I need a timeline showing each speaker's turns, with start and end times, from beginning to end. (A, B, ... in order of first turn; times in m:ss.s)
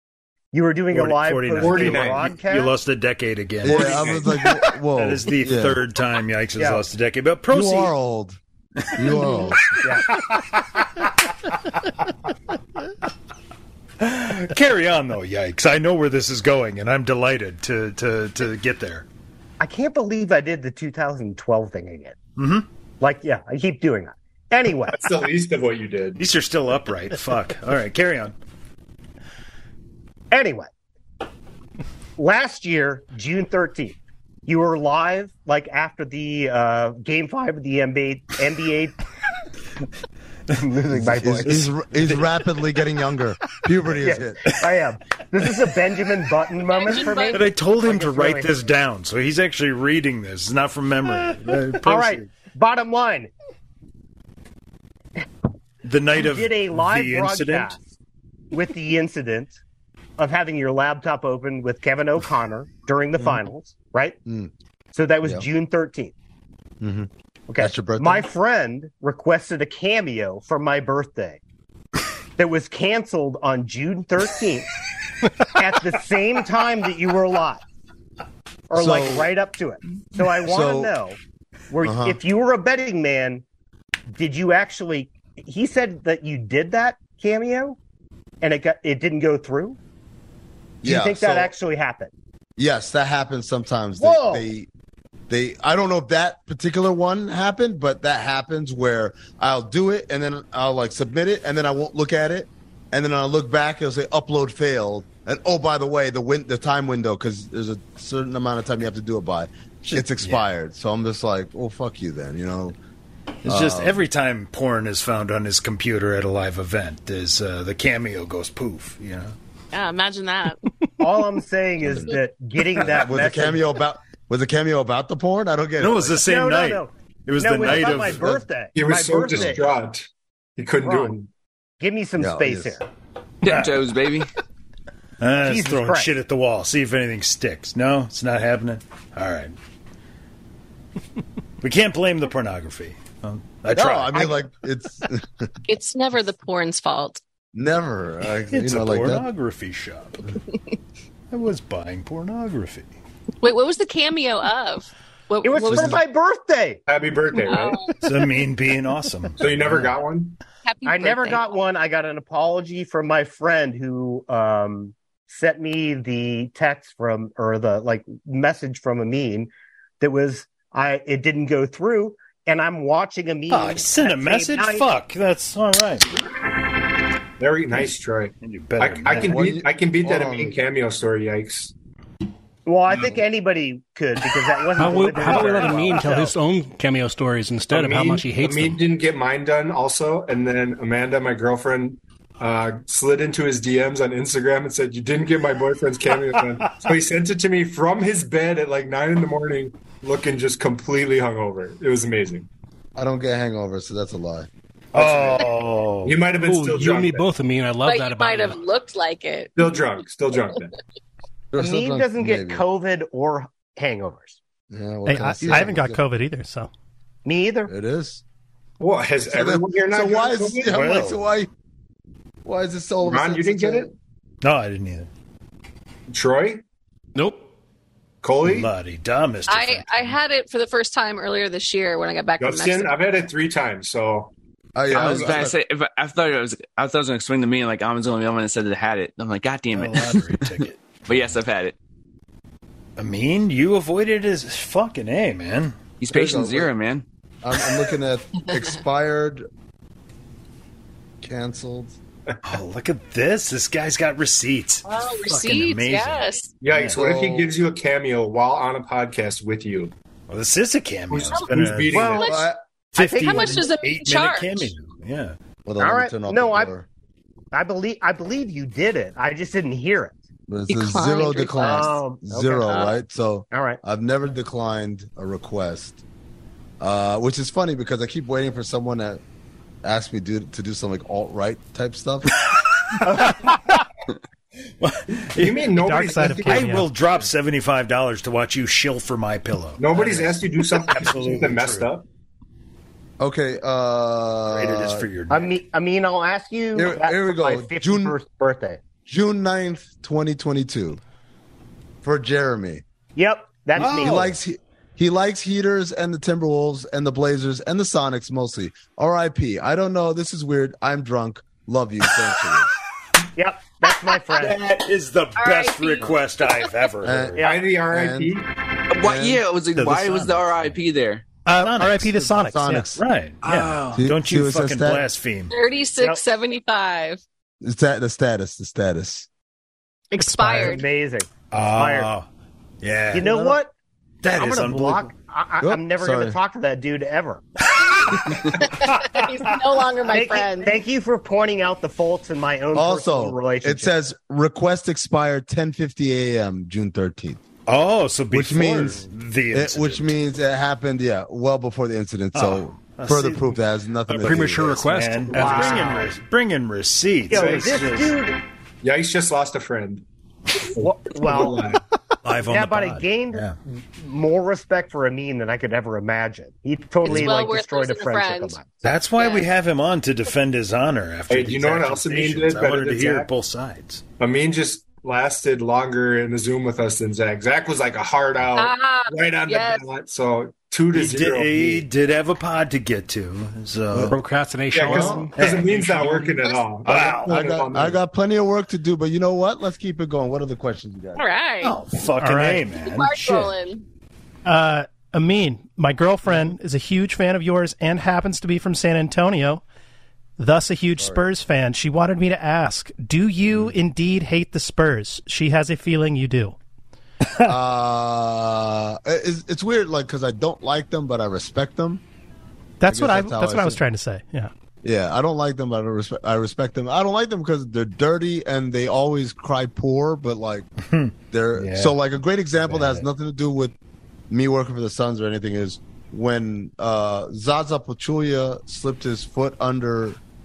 0:00.5-0:02.7 A
0:00.9-0:04.3 B
0:01.5-0:02.3 C
0:03.6-0:05.8 D
0:03.6-0:04.3 C
0:04.9-0:07.9 B
0:06.6-0:06.8 A
0:07.5-0:08.4 D
0:08.8-0:10.8 B
0:08.9-0:09.7 D
0:09.8-0:10.1 A
0:14.0-0:19.0 B
0:19.6-0:22.2 A
0:22.4-0:22.6 B
0:23.0-0:25.1 A
0:24.9-0:26.2 C
0:26.2-0:28.3 B
0:30.3-0:30.7 A
0:32.2-0:39.0 A
0:40.5-0:41.7 A
0:41.0-0:44.4 D
0:41.4-0:42.3 B
0:44.0-0:48.5 A
0:46.7-0:47.4 E
0:47.3-0:52.3 B
0:51.8-0:53.3 A
0:55.8-0:57.7 B
0:56.2-0:57.8 A
0:58.5-0:59.6 A
1:00.2-1:04.2 A
1:04.2-1:04.5 D
1:04.9-1:06.1 A
1:06.8-1:08.3 D
1:07.5-1:11.4 A
1:12.4-1:14.7 A
1:15.6-1:17.6 A
1:18.7-1:21.2 A
1:18.7-1:19.3 D
1:20.4-1:20.9 D
1:21.7-1:23.4 A
1:21.8-1:22.2 D
1:24.1-1:27.8 A
1:28.4-1:29.8 A
1:30.8-1:31.5 D
1:30.8-1:32.1 A
1:32.6-1:34.7 D
1:34.0-1:34.4 A
1:35.3-1:52.8 D
1:49.9-1:50.4 B
1:53.4-1:59.3 B
1:53.4-1:54.0 D
1:59.7-2:00.6 E
2:01.0-2:03.6 A
2:01.8-2:02.1 D
2:02.8-2:06.2 D
2:05.8-2:08.4 B
2:06.2-2:09.7 A
2:07.6-2:08.4 D
2:08.7-2:11.3 C
2:10.8-2:11.2 A
2:11.8-2:12.8 A
2:12.2-2:12.8 D
2:13.4-2:14.3 F
2:13.4-2:13.7 B
2:15.2-2:19.5 B
2:15.4-2:16.1 A
2:21.6-2:24.3 B
2:23.7-2:25.5 D
2:25.6-2:27.2 E
2:27.5-2:29.3 D
2:28.5-2:30.3 B
2:31.3-2:32.9 B
2:33.4-2:36.0 E
2:35.4-2:36.8 A
2:35.6-2:36.0 D
2:36.9-2:37.9 C
2:37.4-2:37.9 E
2:38.0-2:39.9 B
2:39.4-2:40.4 C
2:40.6-2:41.5 E
2:40.8-2:54.9 A
2:53.5-2:56.2 B
2:57.4-3:01.7 C
2:58.4-2:59.4 B
2:59.1-3:00.6 D
3:02.6-3:06.3 A
3:04.8-3:08.8 G
3:05.6-3:06.0 C
3:07.7-3:22.5 C
3:23.0-3:24.5 D
3:24.9-3:26.2 B
3:24.9-3:25.5 C
3:26.0-3:27.2 C
3:26.4-3:28.6 G
3:27.8-3:29.5 E
3:29.6-3:30.7 C
3:31.5-3:32.6 D
3:31.6-3:34.4 A
3:34.7-3:36.0 D
3:35.0-3:36.7 H
3:37.2-3:37.7 A
3:37.7-3:38.2 D
3:38.8-3:40.7 C
3:39.3-3:41.5 D
3:40.7-3:41.2 B
3:42.4-3:43.9 D
3:43.0-3:43.9 C
3:44.4-3:45.1 B
3:46.1-3:46.6 C
3:47.2-3:47.4 G
3:48.2-3:48.7 C
3:48.4-3:50.2 B
3:49.5-3:52.9 E
3:52.4-3:54.3 C
3:54.7-3:55.6 D
3:54.9-3:55.3 C
3:54.9-4:01.7 F
3:59.7-4:01.4 B
4:03.0-4:05.8 B
4:06.0-4:07.0 F
4:06.1-4:06.7 D
4:07.4-4:09.4 D
4:11.2-4:12.0 D
4:12.4-4:17.0 B
4:14.8-4:16.5 E
4:16.6-4:19.9 C
4:17.0-4:17.5 D
4:20.3-4:22.1 B
4:21.1-4:22.5 C
4:21.9-4:22.2 A
4:22.0-4:22.4 E
4:22.2-4:22.6 D
4:22.9-4:23.6 A
4:23.0-4:25.4 B
4:23.2-4:24.7 E
4:25.6-4:26.9 D
4:25.8-4:26.7 A
4:27.5-4:30.1 A
4:30.5-4:36.0 D
4:30.7-4:31.9 E
4:31.6-4:32.9 A
4:32.7-4:32.9 E
4:33.5-4:33.8 A
4:36.8-4:39.2 D
4:39.8-4:42.3 D
4:42.5-4:43.5 B
4:44.8-4:45.7 B
4:45.3-4:46.8 C
4:45.8-4:46.9 H
4:46.4-4:51.9 B
4:49.8-4:52.0 C
4:53.2-4:55.0 D
4:54.5-4:55.6 B
4:55.3-4:58.8 A
4:56.7-4:58.2 D
4:59.0-5:01.0 D
5:02.0-5:02.8 D
5:03.2-5:04.3 A
5:03.8-5:04.3 B
5:03.8-5:12.8 D
5:13.4-5:14.6 A
5:14.3-5:17.4 B
5:15.4-5:16.7 E
5:17.0-5:18.3 D
5:17.4-5:17.6 A
5:17.4-5:18.4 C
5:18.9-5:21.2 F
5:19.0-5:19.4 D
5:19.8-5:20.3 B
5:21.4-5:22.9 H
5:21.5-5:22.3 B
5:22.2-5:23.0 D
5:23.0-5:25.5 B
5:23.4-5:23.8 F
5:23.9-5:25.1 D
5:25.5-5:27.2 E
5:27.6-5:29.3 D
5:30.1-5:30.8 E
5:30.2-5:30.8 H
5:30.5-5:32.1 A
5:31.5-5:32.3 B
5:32.8-5:33.5 B
5:33.1-5:33.7 A
5:33.2-5:33.6 D
5:34.2-5:35.1 B
5:34.3-5:37.4 A
5:35.6-5:36.4 D
5:38.6-5:40.8 E
5:40.0-5:43.9 A
5:42.7-5:47.4 D
5:47.7-5:50.1 B
5:48.3-5:54.8 D
5:52.3-5:53.6 B
5:54.1-5:56.1 G
5:54.1-5:58.2 B
5:55.3-5:56.1 A
5:57.3-5:57.9 C
5:57.3-5:58.4 A
5:58.8-6:00.0 C
6:00.7-6:01.8 C
6:00.8-6:01.7 A
6:02.2-6:03.6 B
6:02.4-6:08.7 A
6:07.0-6:08.6 E
6:08.8-6:14.0 B
6:09.2-6:09.4 E
6:11.3-6:13.3 C
6:14.2-6:21.8 C
6:18.6-6:19.8 E
6:20.9-6:24.2 B
6:23.9-6:24.2 D
6:24.1-6:26.4 G
6:24.7-6:28.0 C
6:24.8-6:25.3 D
6:25.4-6:26.3 B
6:26.8-6:27.3 B
6:27.2-6:31.2 D
6:31.2-6:31.8 E
6:31.6-6:33.5 B
6:32.2-6:32.6 H
6:32.8-6:33.8 E
6:34.4-6:39.6 H
6:40.4-6:46.6 H
6:41.0-6:41.2 D
6:47.4-6:52.0 D
6:52.8-6:54.5 H
6:52.9-6:53.8 D
6:54.8-7:00.7 D
7:00.8-7:02.0 B
7:01.3-7:03.7 D
7:02.6-7:03.0 B
7:04.3-7:10.2 D